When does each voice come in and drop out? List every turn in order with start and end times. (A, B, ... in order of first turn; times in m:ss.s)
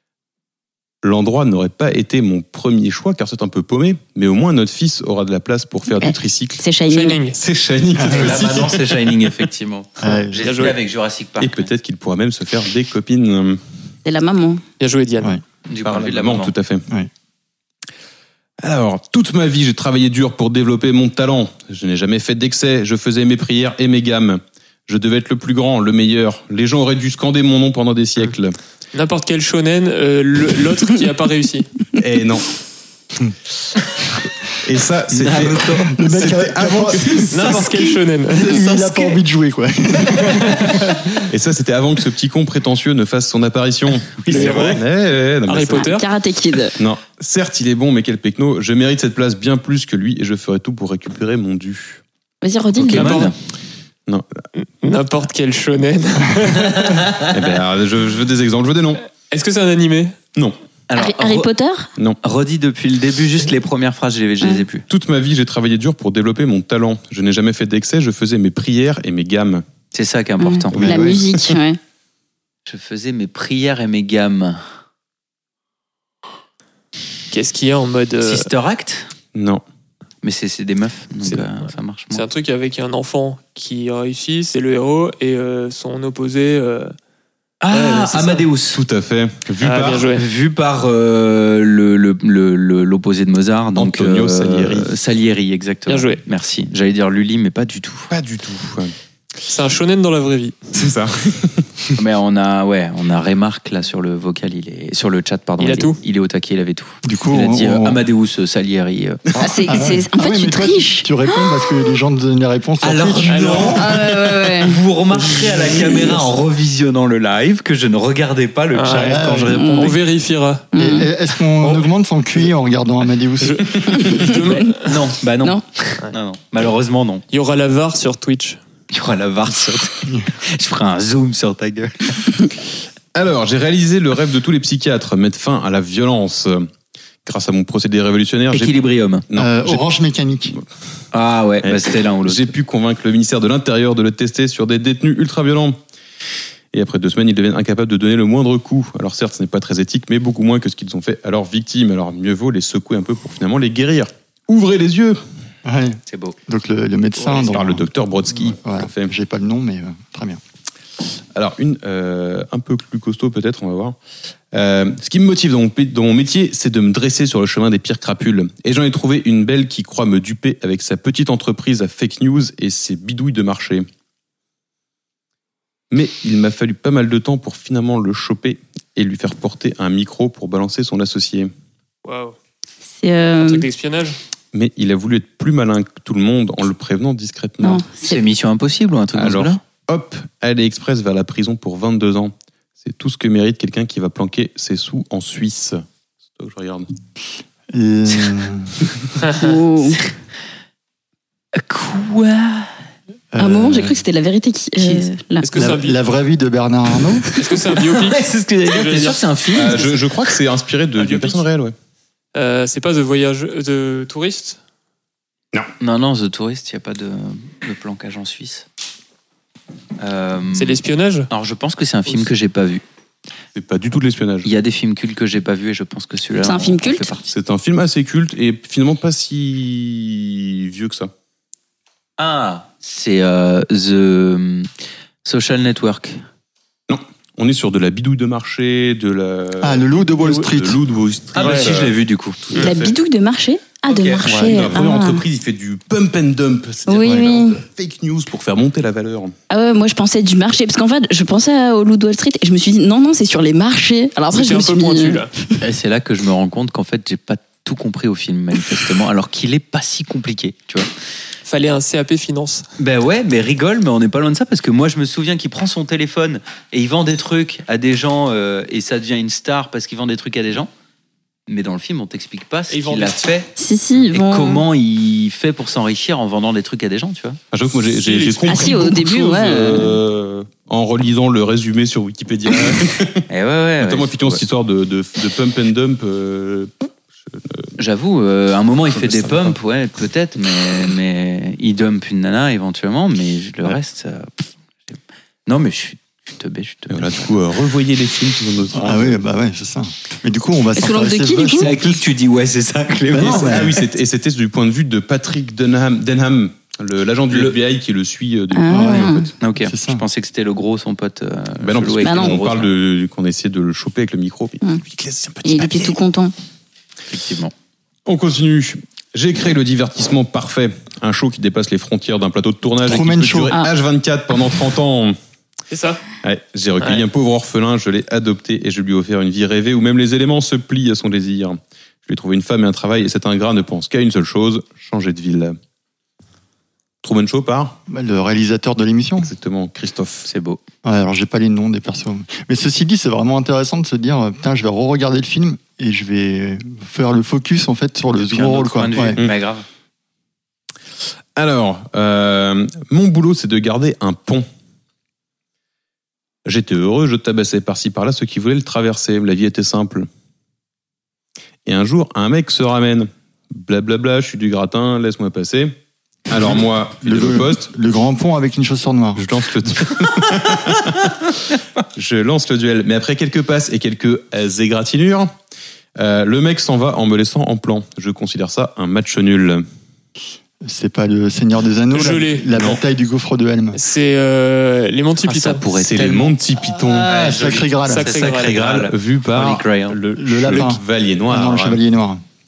0:01.0-0:06.6 A
0:06.0-0:07.2 B
0:06.9-0:07.4 C
0:07.3-0:09.3 A
0:07.9-0:08.5 D
0:08.1-0:11.7 E
0:10.0-0:10.6 D
0:10.4-0:10.8 C
0:11.4-0:13.6 A
0:14.0-0:14.6 B
0:14.8-0:15.4 C
0:15.7-0:16.5 E
0:15.8-0:16.8 A
0:18.6-0:28.5 A
0:28.9-0:31.7 C
0:32.0-0:32.5 A
0:34.6-0:37.6 A
0:35.1-0:36.0 E
0:35.9-0:37.6 D
0:37.3-0:38.7 C
0:38.3-0:41.0 D
0:38.4-0:39.2 E
0:41.3-0:45.8 A
0:44.3-0:44.8 C
0:45.4-0:46.0 C
0:45.7-0:46.8 B
0:46.8-0:52.0 A
0:52.4-0:53.3 B
0:52.8-0:53.4 E
0:52.9-0:53.3 C
0:54.6-0:57.1 C
0:57.3-0:59.0 A
0:59.3-1:00.1 C
1:00.9-1:01.5 E
1:01.0-1:01.9 B
1:02.2-1:04.8 E
1:04.9-1:09.6 A
1:09.9-1:10.8 E
1:10.4-1:11.8 B
1:10.7-1:11.5 A
1:10.8-1:11.2 D
1:12.6-1:14.6 E
1:17.3-1:18.5 C
1:18.2-1:19.1 E
1:19.3-1:19.6 A
1:20.2-1:22.2 E
1:21.2-1:26.9 C
1:27.6-1:28.8 E
1:27.7-1:28.4 C
1:28.7-1:30.1 A
1:29.6-1:30.2 C
1:30.1-1:38.1 E
1:33.7-1:34.9 A
1:35.9-1:36.2 C
1:38.1-1:38.9 A
1:39.5-1:40.8 C
1:40.7-1:42.0 A
1:42.0-1:49.2 E
1:45.6-1:46.0 C
1:47.0-1:48.0 D
1:49.3-1:49.6 A
1:49.4-1:51.1 B
1:49.4-1:53.8 D
1:52.8-2:00.0 E
1:53.3-1:53.9 C
1:53.8-1:54.8 B
1:58.7-2:00.7 C
1:59.0-1:59.6 D
1:59.5-2:00.0 B
2:00.7-2:01.1 B
2:00.7-2:03.8 D
2:01.6-2:01.9 C
2:03.4-2:04.9 C
2:03.9-2:04.7 B
2:04.8-2:07.2 E
2:07.3-2:08.6 C
2:08.9-2:12.3 E
2:13.1-2:16.7 A
2:17.2-2:18.8 A
2:18.5-2:19.2 E
2:19.3-2:19.8 A
2:19.4-2:20.6 D
2:21.1-2:22.5 E
2:21.6-2:25.8 A
2:26.7-2:35.2 A
2:35.6-2:40.4 D
2:36.1-2:36.4 E
2:37.3-2:39.1 A
2:41.3-2:44.0 A
2:44.5-2:53.8 A
2:55.9-3:01.5 A
3:02.0-3:02.4 C
3:03.0-3:03.7 B
3:03.4-3:04.2 C
3:04.5-3:07.8 A
3:07.6-3:08.2 B
3:08.0-3:09.6 E
3:09.1-3:15.8 A
3:16.3-3:16.9 A
3:17.7-3:18.7 D
3:19.3-3:20.0 B
3:21.5-3:22.7 E
3:23.3-3:24.0 D
3:23.4-3:25.6 B
3:24.8-3:25.0 E
3:25.4-3:26.0 C
3:25.5-3:27.3 D
3:27.3-3:29.9 C
3:27.7-3:29.9 E
3:29.5-3:31.7 A
3:31.0-3:31.4 C
3:32.3-3:34.6 C
3:35.8-3:38.6 E
3:40.0-3:42.8 E
3:40.5-3:41.3 C
3:43.5-3:44.5 A
3:44.4-3:47.3 E
3:46.4-3:47.1 B
3:47.3-3:51.1 A
3:52.2-3:54.7 E
3:55.2-3:56.2 E
3:56.9-4:02.9 A
3:59.6-4:00.8 D
4:01.3-4:02.7 E
4:01.4-4:01.7 C
4:02.6-4:05.2 B
4:03.8-4:04.3 E
4:04.2-4:04.6 D
4:04.3-4:09.3 A
4:06.9-4:07.6 B
4:09.5-4:15.5 B
4:14.3-4:15.3 C
4:15.6-4:20.9 E
4:21.4-4:22.6 C
4:22.8-4:30.7 E
4:31.5-4:33.5 E
4:32.7-4:33.3 C
4:33.6-4:34.6 B
4:34.1-4:37.4 E
4:37.5-4:43.2 A
4:37.9-4:39.6 C
4:38.5-4:40.0 B
4:43.3-4:44.4 E
4:43.8-4:47.7 A
4:47.8-4:57.3 E
4:48.9-4:49.6 A
4:56.9-4:59.2 A
4:58.8-5:02.0 D
5:00.8-5:01.7 B
5:01.6-5:03.8 E
5:03.1-5:03.7 D
5:03.2-5:09.3 A
5:07.3-5:07.6 E
5:08.5-5:09.3 B
5:08.7-5:10.0 D
5:09.4-5:12.7 E
5:11.6-5:16.0 A
5:12.0-5:12.4 B
5:15.4-5:16.3 B
5:17.1-5:17.5 E
5:18.0-5:25.2 A
5:22.8-5:23.5 D
5:25.7-5:26.0 C
5:26.2-5:35.6 A
5:37.0-5:37.8 A
5:37.9-5:39.3 D
5:39.2-5:40.3 A
5:40.3-5:40.6 E
5:40.8-5:49.2 D
5:48.2-5:49.6 E
5:51.3-5:54.4 A
5:56.4-6:00.1 A
6:01.6-6:05.8 A
6:06.3-6:07.7 A
6:06.4-6:09.2 D
6:09.2-6:11.1 A
6:11.9-6:15.3 A
6:16.0-6:19.6 A
6:20.6-6:23.8 D
6:21.9-6:22.5 C
6:22.5-6:22.8 A
6:23.7-6:26.2 C
6:25.3-6:30.0 E
6:25.7-6:27.1 A
6:26.7-6:28.1 D
6:27.8-6:28.6 C
6:28.3-6:31.8 A
6:30.1-6:32.2 D